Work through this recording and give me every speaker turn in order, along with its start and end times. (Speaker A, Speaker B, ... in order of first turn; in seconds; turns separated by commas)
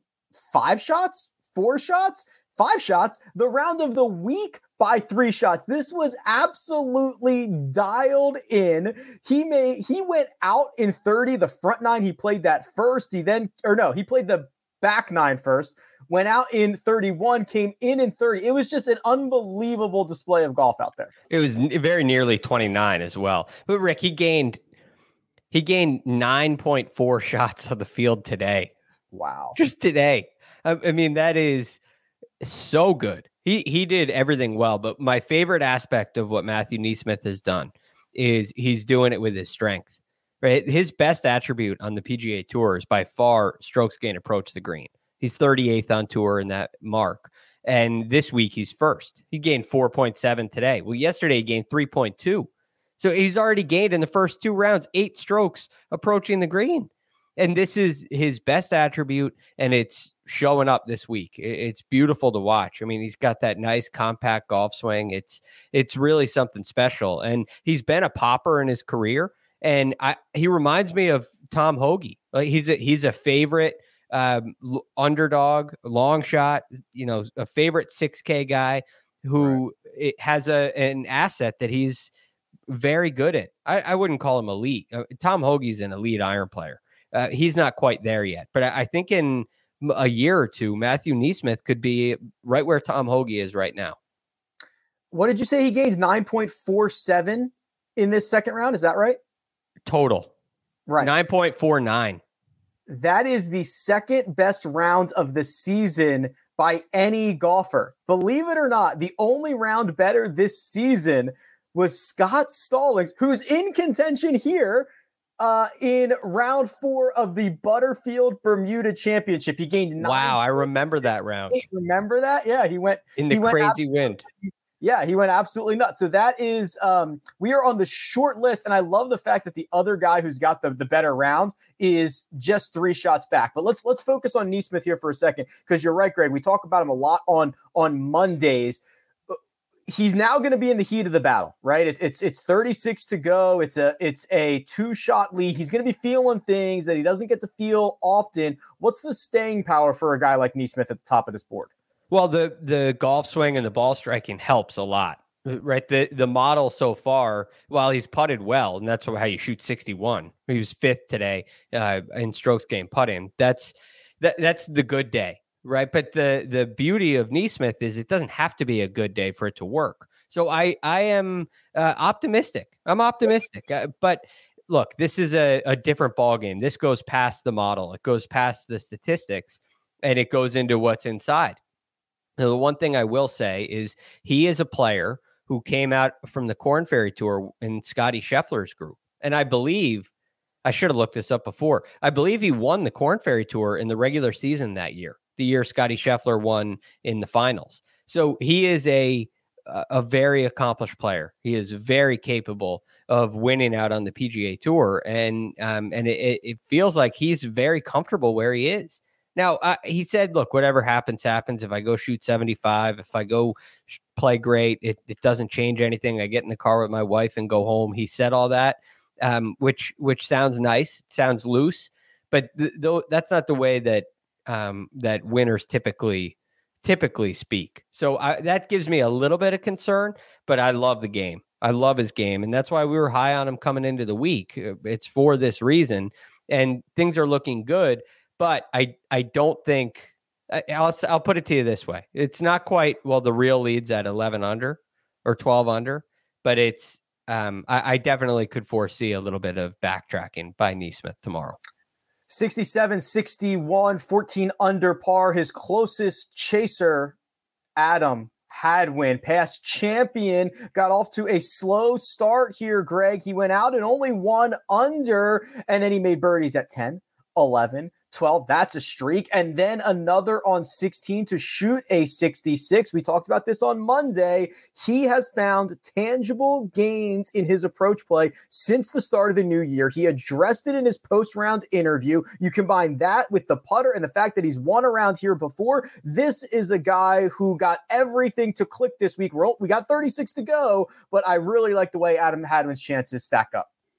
Speaker A: 0.4-21.1, Speaker B: 21.3-24.6, Speaker B: 25.5-28.7, Speaker A: 29.1-29.6, Speaker B: 29.6-31.8, Speaker B: 32.4-82.1, Speaker B: 82.7-94.0, Speaker A: 95.1-99.2, Speaker B: 99.9-100.3, Speaker A: 100.9-101.1, Speaker B: 101.0-102.2, Speaker A: 102.9-138.8, Speaker B: 120.0-121.6, Speaker B: 123.2-124.2, Speaker A: 139.9-151.7, Speaker B: 152.1-181.6, Speaker B: 182.4-190.1, Speaker B: 190.7-251.6, Speaker A: 252.3-257.2, Speaker A: 257.8-293.7